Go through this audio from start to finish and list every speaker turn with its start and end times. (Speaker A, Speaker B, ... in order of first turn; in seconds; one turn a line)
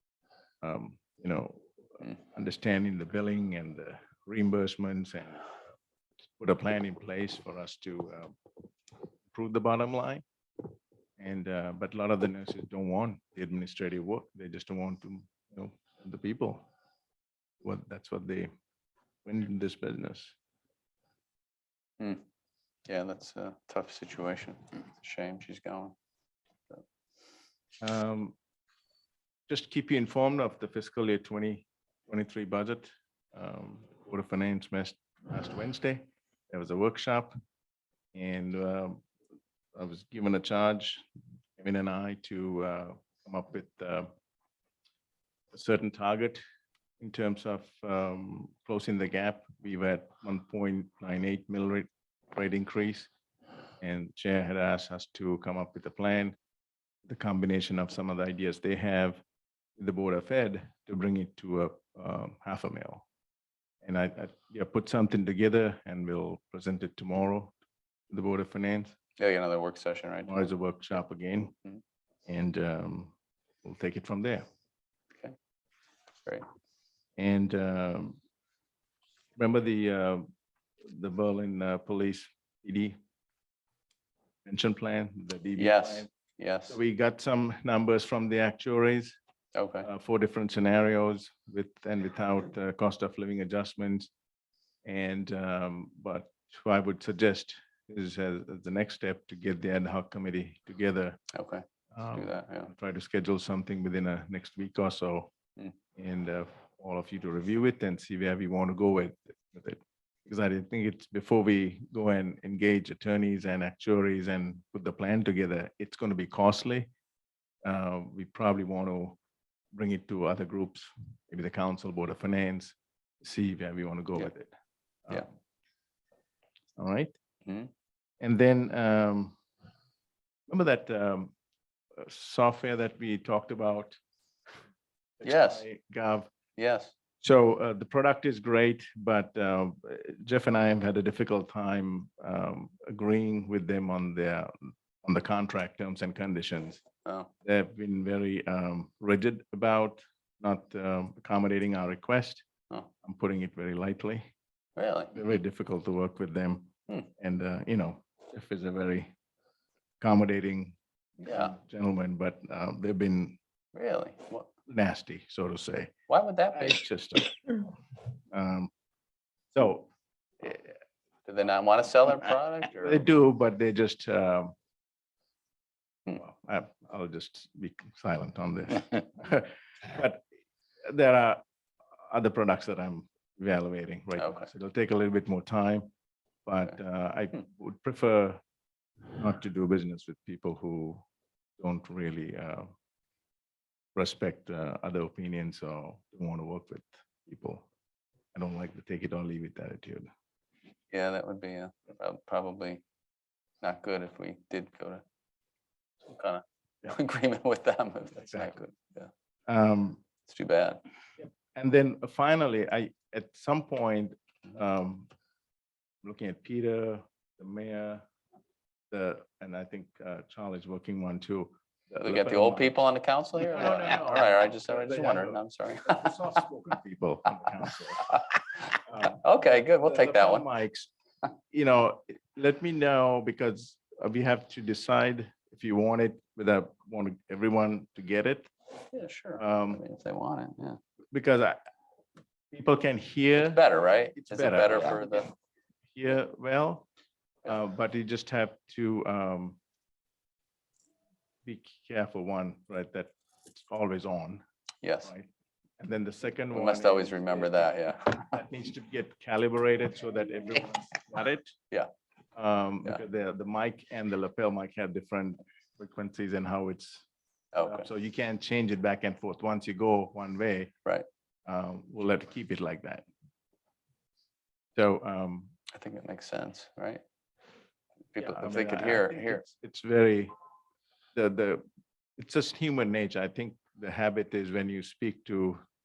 Speaker A: 0.6-5.5
Speaker A: 6.4-8.4
Speaker A: 9.3-10.2
Speaker A: 11.2-16.6
Speaker A: 17.6-18.5
Speaker A: 19.2-20.3
Speaker B: 22.0-22.2
Speaker B: 22.9-25.9
Speaker A: 27.8-28.4
Speaker A: 29.5-37.3
Speaker A: 38.1-39.0
Speaker A: 39.7-41.0
Speaker A: 41.6-44.1
Speaker A: 45.5-46.4
Speaker A: 47.0-53.1
Speaker A: 53.8-56.4
Speaker A: 57.0-59.2
Speaker A: 59.8-63.0
Speaker A: 63.8-67.5
Speaker A: 68.1-69.0
Speaker B: 69.2-70.5
Speaker A: 70.2-71.5
Speaker A: 72.3-74.4
Speaker A: 77.2-78.2
Speaker A: 79.4-80.3
Speaker A: 80.8-83.0
Speaker A: 84.4-86.1
Speaker B: 85.5-86.7
Speaker A: 86.7-89.1
Speaker B: 89.5-89.9
Speaker A: 89.8-94.1
Speaker A: 94.8-101.2
Speaker B: 101.3-102.7
Speaker A: 101.9-105.3
Speaker A: 106.0-116.9
Speaker A: 117.6-119.2
Speaker A: 119.7-124.5
Speaker A: 125.0-125.3
Speaker A: 126.8-127.2
Speaker B: 127.5-127.7
Speaker A: 128.2-129.4
Speaker A: 130.5-131.3
Speaker A: 132.0-134.0
Speaker A: 135.2-136.3
Speaker B: 135.2-135.6
Speaker B: 136.6-136.9
Speaker A: 137.2-146.8
Speaker B: 147.0-147.3
Speaker A: 147.4-152.4
Speaker A: 153.0-154.3
Speaker B: 154.8-155.2
Speaker A: 155.1-159.1
Speaker A: 160.0-163.4
Speaker B: 161.2-161.5
Speaker B: 163.7-164.5
Speaker A: 164.7-165.9
Speaker B: 166.1-166.8
Speaker A: 166.5-167.7
Speaker A: 168.3-168.7
Speaker A: 169.5-169.9
Speaker A: 170.4-170.7
Speaker B: 171.2-173.1
Speaker A: 172.1-174.5
Speaker A: 176.1-180.2
Speaker A: 180.8-181.4
Speaker A: 182.1-185.9
Speaker B: 184.2-184.5
Speaker A: 186.4-188.4
Speaker A: 189.1-191.0
Speaker A: 191.6-192.7
Speaker A: 193.9-197.7
Speaker A: 198.3-200.1
Speaker B: 200.9-202.8
Speaker B: 203.6-205.0
Speaker B: 206.2-208.9
Speaker A: 208.2-208.6
Speaker A: 209.5-210.0
Speaker B: 210.3-210.8
Speaker A: 211.2-215.1
Speaker A: 216.0-218.0
Speaker A: 218.9-222.8
Speaker B: 222.0-226.4
Speaker A: 223.3-238.5
Speaker B: 229.1-230.5
Speaker B: 238.9-240.8
Speaker A: 239.4-239.8
Speaker A: 241.1-241.6
Speaker A: 242.5-245.3
Speaker B: 243.4-245.3
Speaker A: 245.9-246.9
Speaker A: 247.4-249.6
Speaker A: 251.4-254.4
Speaker B: 254.8-255.1
Speaker A: 255.0-255.3
Speaker A: 255.8-261.5
Speaker B: 256.5-258.4
Speaker A: 262.3-267.1
Speaker B: 267.5-267.9
Speaker A: 267.6-270.7
Speaker A: 271.4-273.1
Speaker A: 274.8-275.5
Speaker B: 275.7-277.0
Speaker B: 278.1-279.4
Speaker A: 278.2-280.3
Speaker A: 281.1-281.6
Speaker A: 282.2-285.6